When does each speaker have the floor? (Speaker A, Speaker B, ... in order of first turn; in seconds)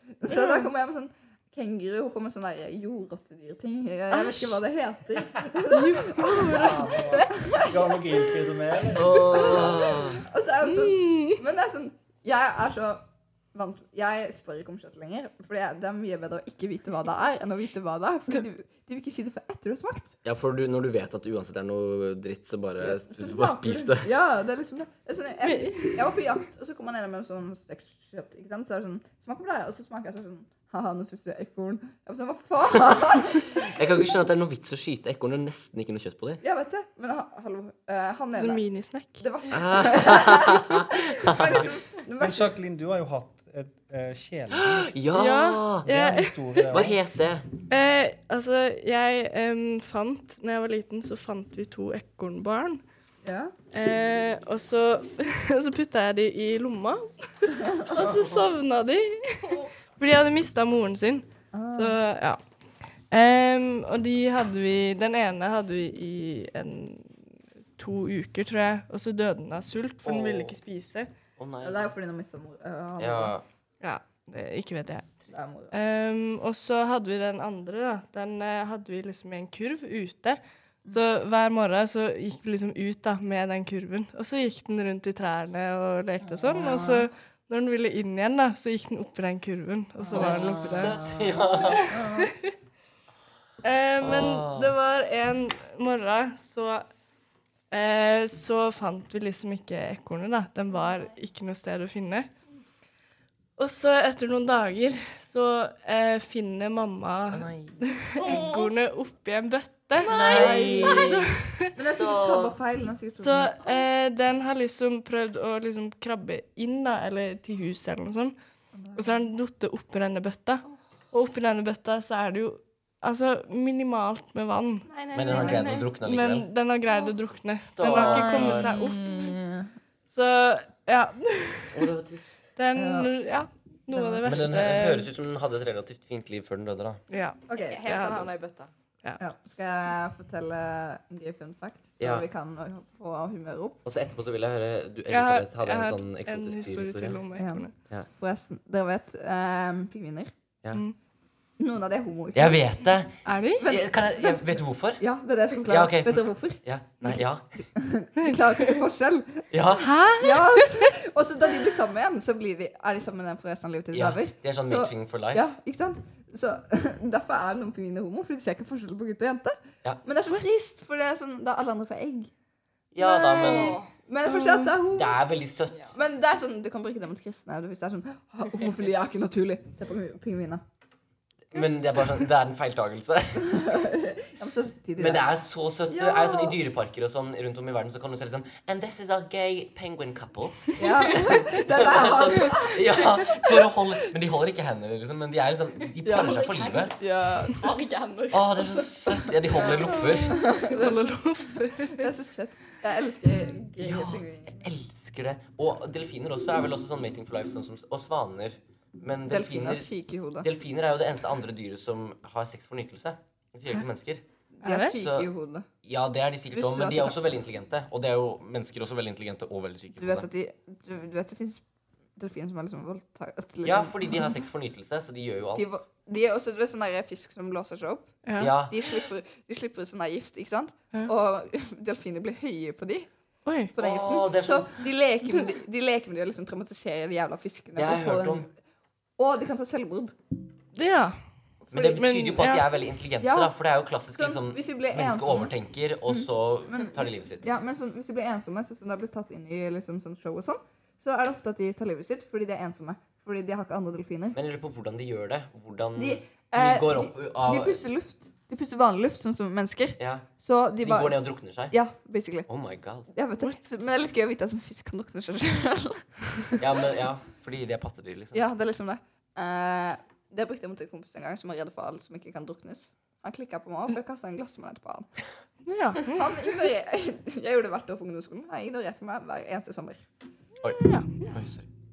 Speaker A: 0.1-6.7, 7.3-8.0, 9.1-20.1, 22.8-33.8, 36.4-38.6, 39.2-42.6, 53.2-53.5, 57.7-58.1, 61.5-62.0, 71.6-73.3, 75.3-75.8, 86.2-87.1, 90.0-92.3, 110.3-111.2, 111.7-113.9, 118.8-119.2, 127.9-129.7, 132.7-133.1, 133.9-134.6, 137.5-137.8, 139.2-143.8, 147.4-150.3, 151.6-152.6, 153.6-159.5, 160.1-172.3, 173.0-175.3, 175.9-180.6, 183.4-185.2, 185.9-186.6, 190.8-193.7, 196.1-196.5, 197.0-197.6, 199.6-204.6, 209.3-210.5, 214.6-215.7, 216.5-217.2, 220.0-221.6, 222.2-224.3, 225.6-228.1, 228.7-233.1, 233.7-238.5, 239.2-240.2, 241.7-242.0, 243.2-243.5, 244.1-245.5, 246.1-254.4, 256.0-262.5, 263.1-266.6, 268.3-275.1, 276.1-280.1
Speaker B: 4.2-4.6, 5.7-7.3, 10.7-11.4, 25.4-26.1, 38.4-39.3, 45.1-46.7, 47.7-52.8, 53.7-62.4, 63.1-67.2, 67.8-71.1, 73.8-75.1, 75.7-91.0, 91.6-92.5, 93.6-96.8, 97.7-102.3, 103.6-110.5, 111.0-111.7, 113.2-118.4, 119.0-124.9, 126.0-129.3, 130.1-131.9, 132.6-135.1, 137.1-138.3, 145.1-147.7, 153.2-153.7, 159.8-160.9, 174.3-174.8, 200.1-202.1, 214.6-215.0, 228.3-228.6, 233.5-233.7, 240.8-241.2, 241.8-242.7, 275.7-276.5, 280.6-281.3
Speaker C: 6.4-10.2, 42.2-45.0, 45.8-47.0
Speaker D: 8.9-10.2, 20.2-24.1, 33.4-36.4, 39.5-41.7, 44.5-45.9, 46.7-47.5, 70.0-70.6, 71.4-71.9, 73.0-73.5, 90.1-91.9, 94.0-94.8, 107.3-107.9, 110.0-111.2, 111.8-112.5, 125.1-126.5, 127.5-128.7, 131.7-132.5, 134.2-137.0, 142.0-142.2, 143.9-147.2, 152.3-155.0, 155.6-157.4, 159.5-159.9, 163.9-165.5, 172.9-173.8, 174.9-175.9, 181.5-183.7, 185.0-196.9, 198.3-200.4, 203.8-209.9, 210.4-214.2, 214.9-215.3, 215.8-220.3, 223.6-225.7, 228.4-228.9, 233.8-234.8, 237.8-238.5, 241.7-247.5, 254.3-257.8, 260.0-261.8, 262.5-263.1, 266.6-268.4, 280.6-281.7
Speaker E: 108.2-108.7, 110.0-111.2, 124.9-125.9, 137.6-138.7, 173.4-173.9, 196.1-200.0